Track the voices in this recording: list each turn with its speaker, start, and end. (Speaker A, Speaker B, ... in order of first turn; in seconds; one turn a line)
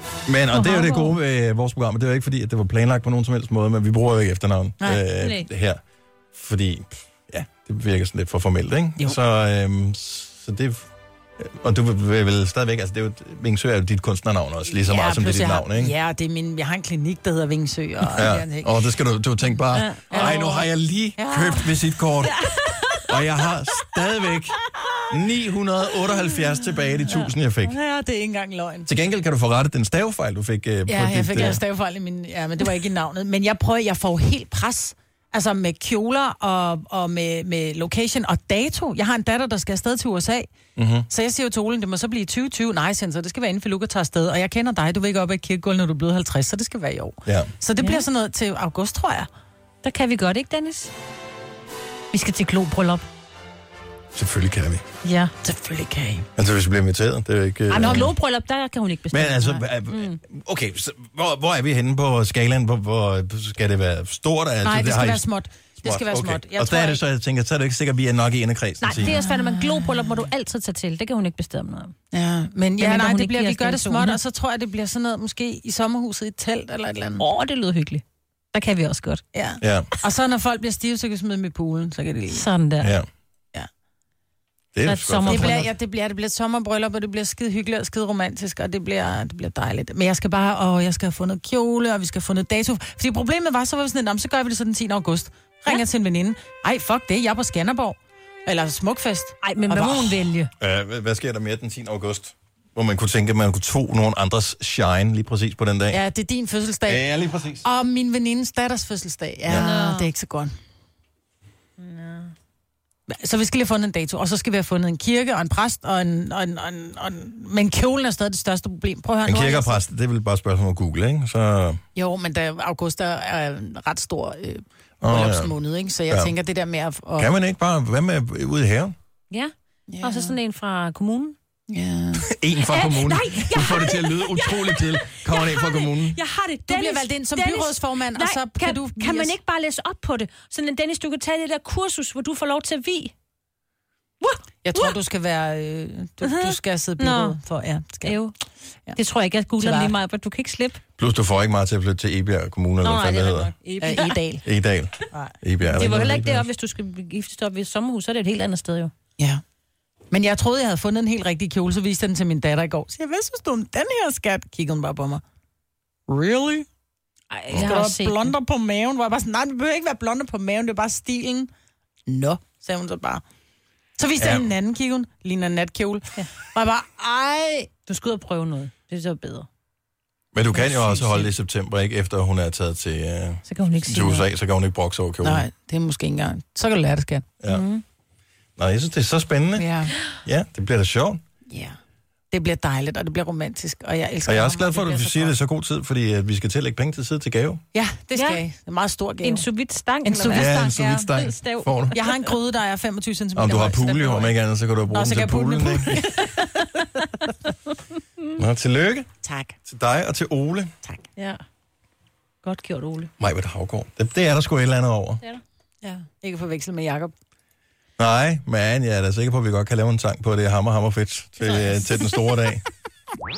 Speaker A: 0.2-5.8
Speaker B: 0.5-1.2
Speaker C: 4.8-5.0
Speaker B: 5.2-5.5
Speaker A: 6.3-10.9
Speaker A: 11.4-15.9
Speaker C: 14.7-18.9
Speaker A: 18.1-22.4
Speaker B: 19.7-20.5
Speaker C: 20.1-22.0
Speaker B: 22.2-23.0
Speaker A: 23.1-24.6
Speaker A: 25.1-27.8
Speaker C: 27.6-28.9
Speaker A: 28.9-31.6
Speaker C: 30.9-40.5
Speaker A: 40.8-41.1
Speaker C: 41.1-49.3
Speaker A: 47.2-47.5
Speaker B: 47.8-48.1
Speaker B: 49.8-50.9
Speaker B: 52.1-53.0
Speaker A: 54.1-54.8
Speaker B: 55.0-55.3
Speaker C: 55.4-56.3
Speaker A: 56.4-58.1
Speaker B: 57.7-60.2
Speaker C: 57.8-58.1
Speaker A: 59.1-65.2
Speaker C: 64.6-67.0
Speaker A: 65.8-69.2
Speaker B: 68.8-71.9
Speaker C: 69.0-70.2
Speaker C: 72.1-77.2
Speaker B: 72.8-74.2
Speaker B: 77.2-79.2
Speaker C: 79.3-82.4
Speaker A: 79.6-79.9
Speaker B: 82.3-82.9
Speaker A: 82.8-83.1
Speaker A: 84.7-85.7
Speaker B: 84.8-85.7
Speaker C: 85.2-100.2
Speaker B: 99.4-100.5
Speaker A: 100.6-106.0
Speaker C: 105.9-107.1
Speaker A: 106.8-107.6
Speaker C: 107.6-110.5
Speaker A: 109.5-109.7
Speaker B: 109.5-110.1
Speaker B: 111.8-112.3
Speaker C: 113.1-119.8
Speaker A: 119.2-121.8
Speaker C: 121.9-127.3
Speaker A: 125.0-125.5
Speaker A: 126.1-126.3
Speaker A: 127.2-128.9
Speaker B: 129.3-131.3
Speaker C: 129.9-130.4
Speaker C: 131.7-132.3
Speaker A: 132.1-136.2
Speaker B: 132.6-143.1
Speaker C: 136.7-139.3
Speaker B: 144.2-144.9
Speaker C: 144.6-148.2
Speaker B: 146.2-147.3
Speaker B: 148.0-148.3
Speaker B: 148.9-150.8
Speaker C: 149.6-149.9
Speaker A: 151.0-153.5
Speaker B: 152.8-154.2
Speaker C: 153.8-154.4
Speaker A: 154.4-156.5
Speaker B: 155.6-158.9
Speaker C: 160.1-165.2
Speaker C: 166.1-166.7
Speaker B: 167.3-168.3
Speaker C: 167.5-171.5
Speaker C: 172.1-173.2
Speaker C: 173.9-177.7
Speaker A: 174.2-174.5
Speaker B: 177.9-179.5
Speaker A: 180.3-185.4
Speaker B: 180.5-181.3
Speaker B: 183.4-184.3
Speaker C: 185.2-187.3
Speaker A: 187.4-187.7
Speaker B: 187.4-187.8
Speaker A: 188.6-191.2
Speaker C: 189.6-190.0
Speaker C: 191.5-191.8
Speaker C: 192.3-195.3
Speaker A: 194.2-197.6
Speaker C: 197.7-199.4
Speaker B: 198.1-198.4
Speaker B: 199.2-202.1
Speaker C: 200.1-201.1
Speaker A: 200.3-201.9
Speaker C: 201.9-204.3
Speaker A: 203.3-206.2
Speaker C: 204.9-206.9
Speaker B: 206.0-207.2
Speaker A: 208.3-209.1
Speaker C: 209.2-209.6
Speaker A: 209.7-210.7
Speaker B: 211.2-211.4
Speaker B: 212.4-213.1
Speaker A: 213.2-215.2
Speaker C: 215.8-217.1
Speaker A: 218.0-222.6
Speaker B: 221.4-222.2